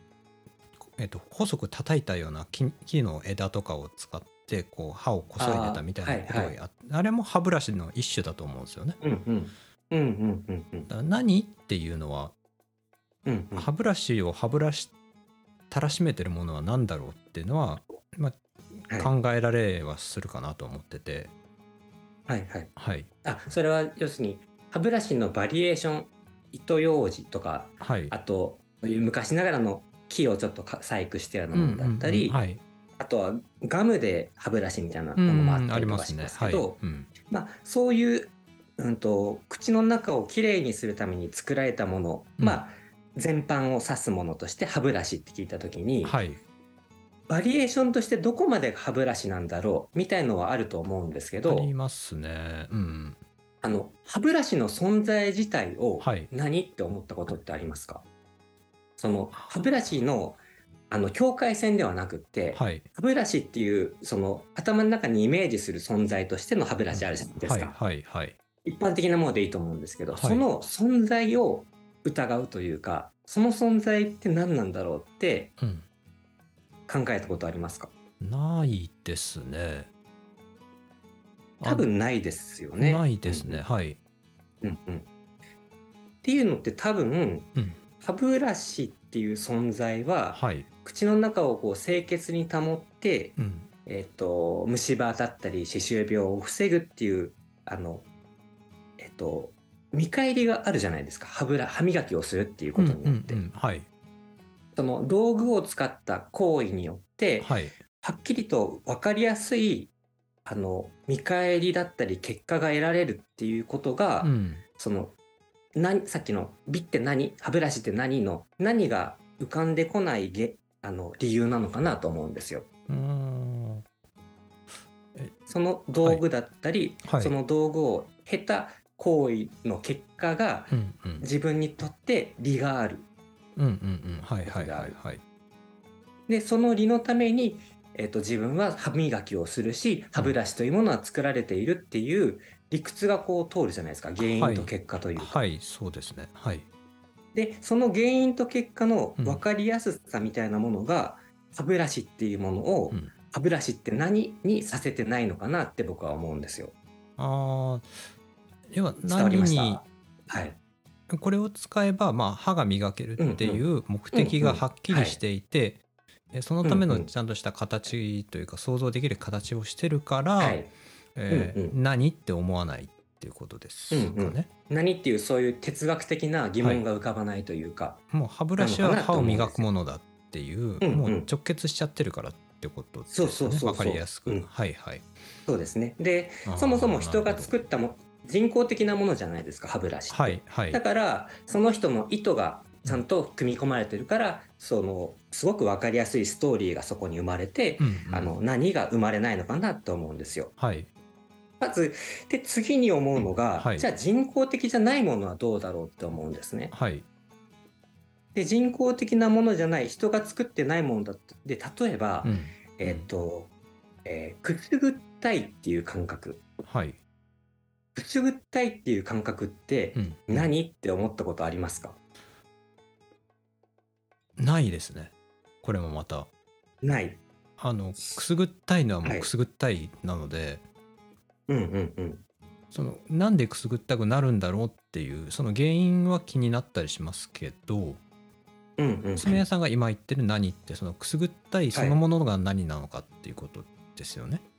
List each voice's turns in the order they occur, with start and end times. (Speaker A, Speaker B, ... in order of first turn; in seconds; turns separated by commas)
Speaker A: 0.9-9.0, Speaker B: 5.4-6.5, Speaker B: 9.0-10.9, Speaker A: 10.9-12.3, Speaker B: 13.2-13.7, Speaker A: 13.5-14.9, Speaker A: 15.7-21.3, Speaker B: 22.3-22.7, Speaker A: 22.8-23.1, Speaker B: 23.2-32.4, Speaker A: 27.8-28.1, Speaker A: 31.5-32.6, Speaker B: 33.0-46.2, Speaker A: 35.2-37.1, Speaker A: 46.0-46.4, Speaker B: 47.3-51.7, Speaker A: 51.5-53.2, Speaker B: 53.6-58.0, Speaker A: 56.0-56.3, Speaker B: 59.0-67.8, Speaker A: 59.4-59.7, Speaker A: 62.5-62.9, Speaker A: 66.9-68.4, Speaker B: 68.6-75.5, Speaker A: 70.1-70.5, Speaker A: 75.6-75.8, Speaker B: 76.9-77.9, Speaker A: 78.2-79.9, Speaker A: 81.6-81.8, Speaker B: 81.6-83.6, Speaker A: 82.8-84.0, Speaker B: 84.6-85.1, Speaker B: 86.2-98.1, Speaker A: 90.3-90.7, Speaker A: 93.4-93.7, Speaker B: 99.0-103.4, Speaker A: 102.8-103.8, Speaker B: 104.8-109.9, Speaker A: 107.4-107.8, Speaker B: 110.4-115.1, Speaker A: 114.2-114.6, Speaker B: 115.7-122.7, Speaker A: 122.9-123.8, Speaker B: 125.5-133.1, Speaker A: 127.0-127.3, Speaker A: 130.7-131.2, Speaker A: 133.6-135.2, Speaker B: 134.4-134.9, Speaker B: 136.3-145.4, Speaker A: 144.2-146.7, Speaker B: 147.3-156.7, Speaker A: 157.2-157.9, Speaker A: 158.7-159.8, Speaker B: 159.1-160.6, Speaker A: 161.1-170.6, Speaker B: 163.2-165.2, Speaker B: 166.6-167.1, Speaker B: 170.4-170.7, Speaker A: 171.2-174.5, Speaker B: 171.3-171.8, Speaker B: 173.9-178.0, Speaker A: 178.1-185.1, Speaker B: 178.6-179.7, Speaker B: 180.8-181.3, Speaker B: 183.1-184.5, Speaker B: 185.5-200.5, Speaker A: 186.4-187.5, Speaker A: 190.1-190.8, Speaker A: 197.8-198.3, Speaker A: 200.6-200.9, Speaker B: 201.6-206.7, Speaker A: 203.6-203.8, Speaker A: 206.7-207.0, Speaker B: 208.3-213.5, Speaker A: 212.2-213.1, Speaker B: 214.0-216.4, Speaker A: 216.6-217.0, Speaker B: 217.9-222.0, Speaker A: 219.9-220.5, Speaker A: 224.4-226.3, Speaker B: 226.8-227.2, Speaker A: 227.6-230.6, Speaker B: 231.5-232.2, Speaker A: 232.7-238.0, Speaker B: 238.8-239.4, Speaker A: 239.2-244.4, Speaker B: 241.7-242.0